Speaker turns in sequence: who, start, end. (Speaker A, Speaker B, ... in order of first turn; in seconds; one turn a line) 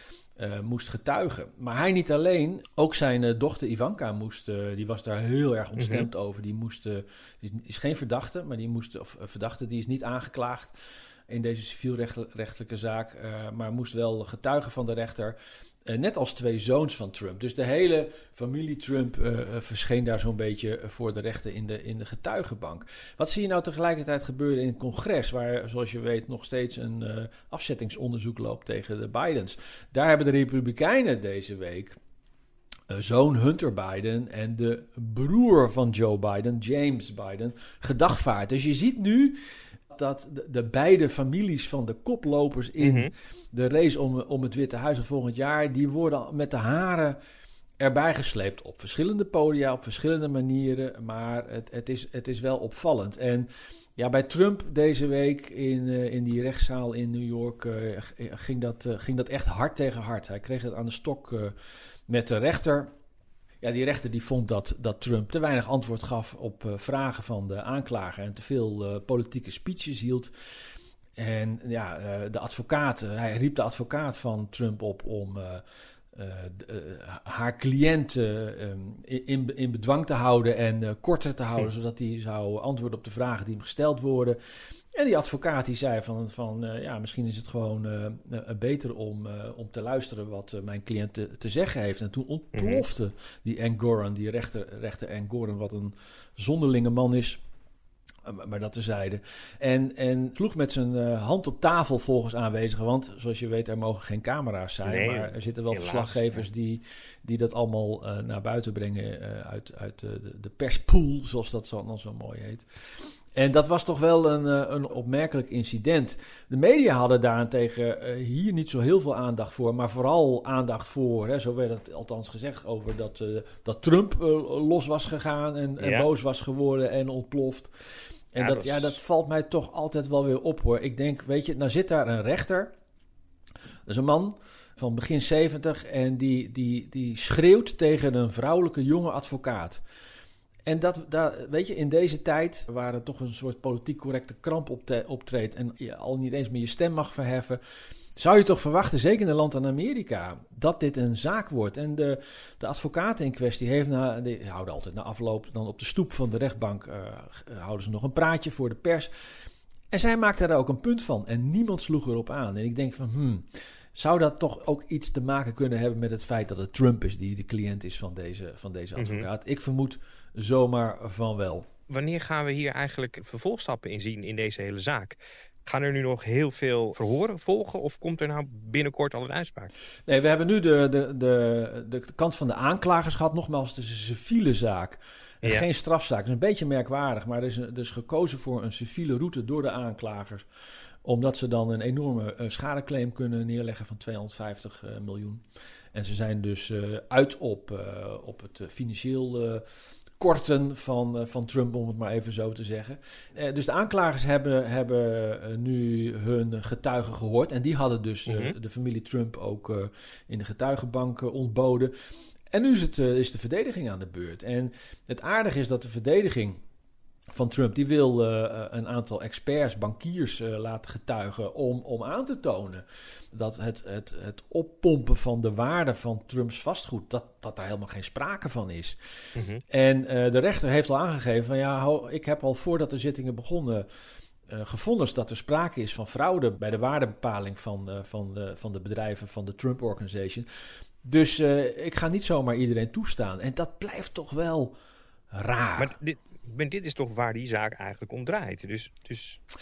Speaker A: 0.4-10.7
Speaker B: 5.8-6.1
Speaker A: 11.3-15.3
Speaker A: 15.9-32.0
Speaker A: 32.9-39.4
Speaker A: 39.9-47.2
Speaker B: 42.8-43.1
Speaker A: 47.8-61.5
Speaker A: 62.1-62.9
Speaker A: 63.6-70.3
Speaker A: 71.2-75.6
Speaker A: 76.1-84.4
Speaker A: 84.9-97.4
Speaker B: 92.5-92.8
Speaker A: 98.2-112.6
Speaker B: 104.8-106.4
Speaker A: 113.3-127.7
Speaker B: 125.8-126.1
Speaker A: 128.3-132.7
Speaker B: 128.4-129.0
Speaker A: 133.9-139.8
Speaker A: 140.7-147.6
Speaker A: 148.2-159.1
Speaker A: 159.9-171.7
Speaker B: 169.0-169.3
Speaker B: 171.9-179.7
Speaker A: 180.1-190.4
Speaker A: 191.0-195.4
Speaker A: 195.9-199.6
Speaker A: 200.2-211.9
Speaker B: 208.2-208.5
Speaker A: 212.5-216.6
Speaker A: 217.3-229.0
Speaker B: 229.3-229.6
Speaker A: 229.7-233.9
Speaker A: 234.5-240.4
Speaker A: 241.0-244.7
Speaker A: 245.3-245.9
Speaker B: 245.8-249.4